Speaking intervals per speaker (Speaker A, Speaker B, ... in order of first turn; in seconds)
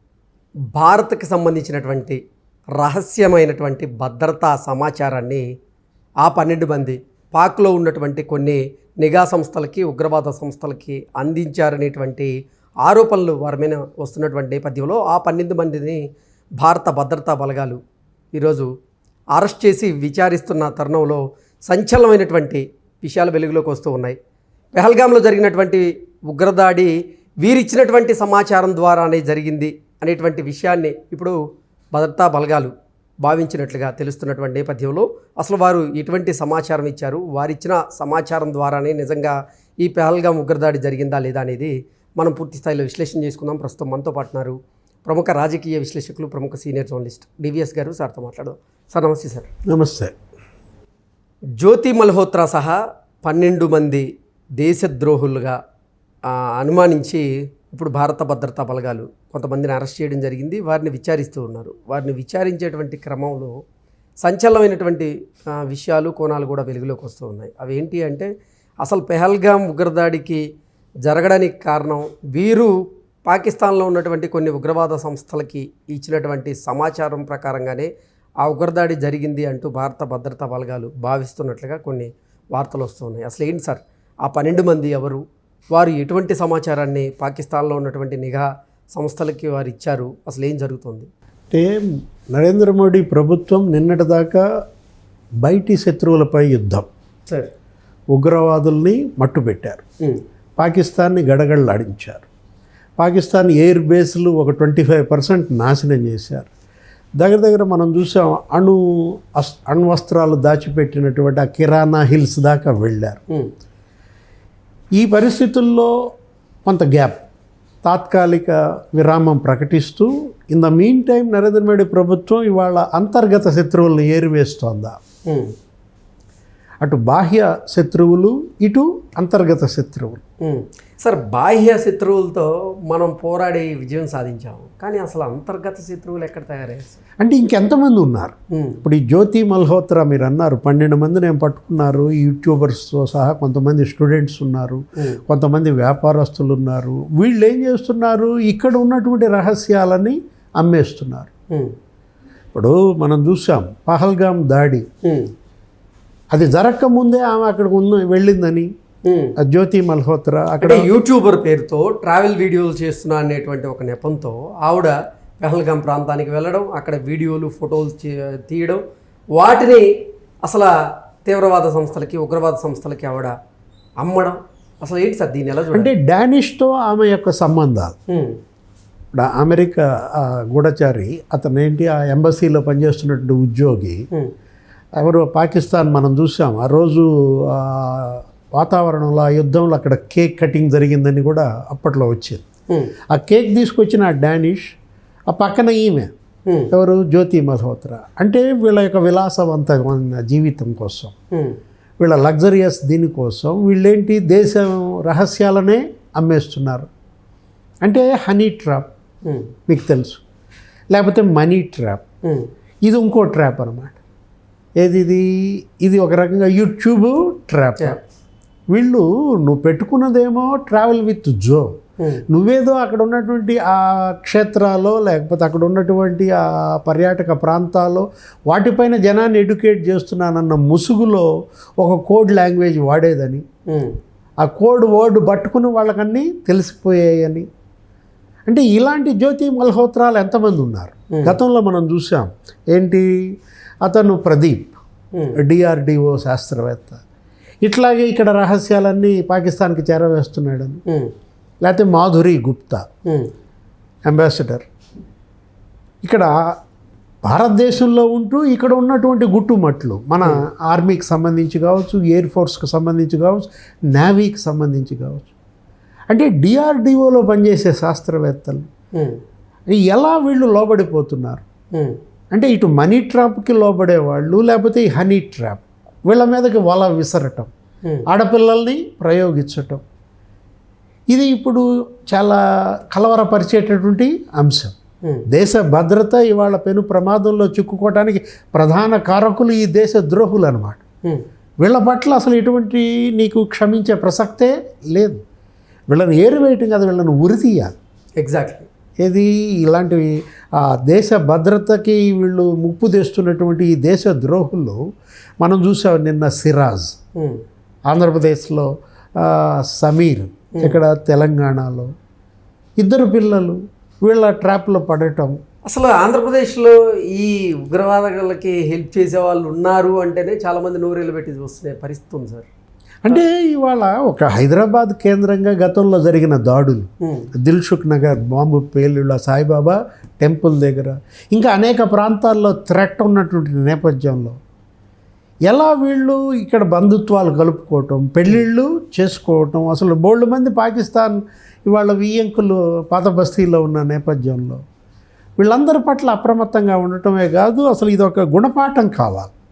Speaker A: 0.8-2.2, 2.8-5.4, 6.2-12.3, 12.8-16.0, 16.6-17.8, 18.3-18.7, 19.4-24.2, 24.8-31.4, 31.9-32.7, 33.2-49.5, 51.6-54.1, 54.6-55.6, 56.3-63.5, 64.2-68.3, 68.8-70.4, 71.0-77.9, 78.4-85.2, 85.8-91.1, 125.3-125.5, 130.4-137.0, 138.5-138.8, 155.0-155.3, 159.1-159.3, 160.6-168.8, 169.4-169.8, 170.4-170.7, 171.3-173.3, 174.0-175.9, 178.1-178.4, 209.2-209.5, 212.2-212.5, 233.7-233.9, 241.1-241.4, 253.1-253.3, 268.9-269.2, 298.2-298.7, 315.7-322.5, 327.0-327.3
Speaker B: 49.7-50.1, 91.5-94.4, 95.4-96.9, 98.1-99.8, 100.6-102.3, 103.0-106.5, 107.2-113.2, 115.0-115.9, 116.7-117.2, 117.8-125.0, 126.8-130.2, 137.2-151.3, 152.5-154.9, 156.3-158.7, 159.4-160.9, 175.7-177.9, 179.1-184.1, 185.0-192.4, 193.1-194.7, 195.3-196.1, 196.7-201.1, 202.0-206.9, 207.8-208.9, 209.7-210.2, 210.9-212.0, 212.8-214.0, 214.8-215.3, 215.8-218.0, 218.7-221.8, 222.3-231.3, 231.8-233.4, 234.4-237.5, 238.5-243.1, 243.8-244.7, 245.4-247.0, 247.6-250.8, 251.6-252.8, 254.1-254.7, 256.0-256.3, 257.2-265.3, 266.1-268.7, 269.7-271.4, 272.3-277.5, 278.1-279.8, 281.1-282.4, 282.9-284.8, 285.3-290.8, 291.6-295.2, 295.9-297.7, 299.0-304.8, 305.4-306.9, 307.9-311.9, 312.8-315.4, 323.0-326.9, 327.4-334.4, 335.5-344.6, 345.4-349.3